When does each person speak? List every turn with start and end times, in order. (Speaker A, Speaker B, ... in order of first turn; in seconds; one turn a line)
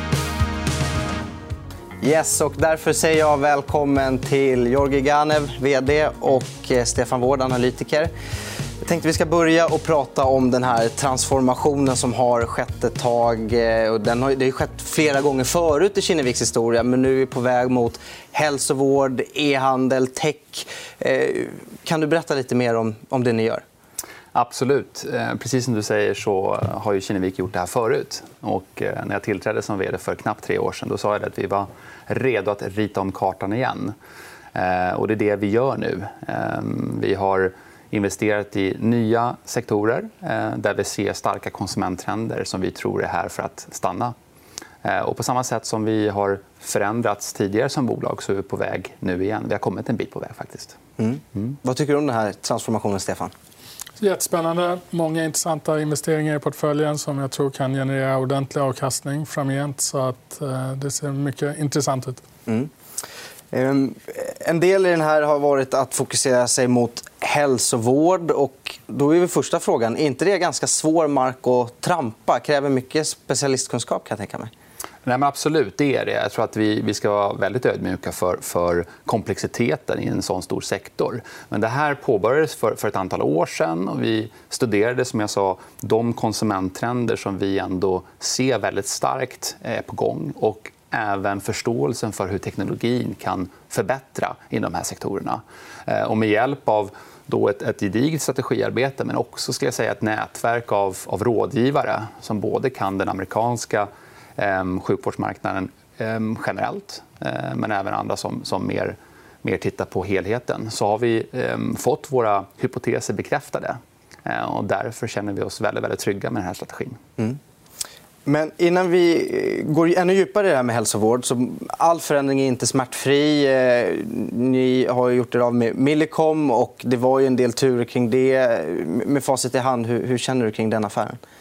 Speaker A: 2.0-8.1
Speaker A: 8.8-23.6
Speaker B: 24.3-33.9
Speaker B: 34.5-44.1
Speaker B: 44.8-50.8
Speaker A: 51.0-53.3
Speaker C: 54.0-62.2
Speaker A: 63.5-74.5
Speaker B: 75.0-117.0
Speaker A: 118.2-131.2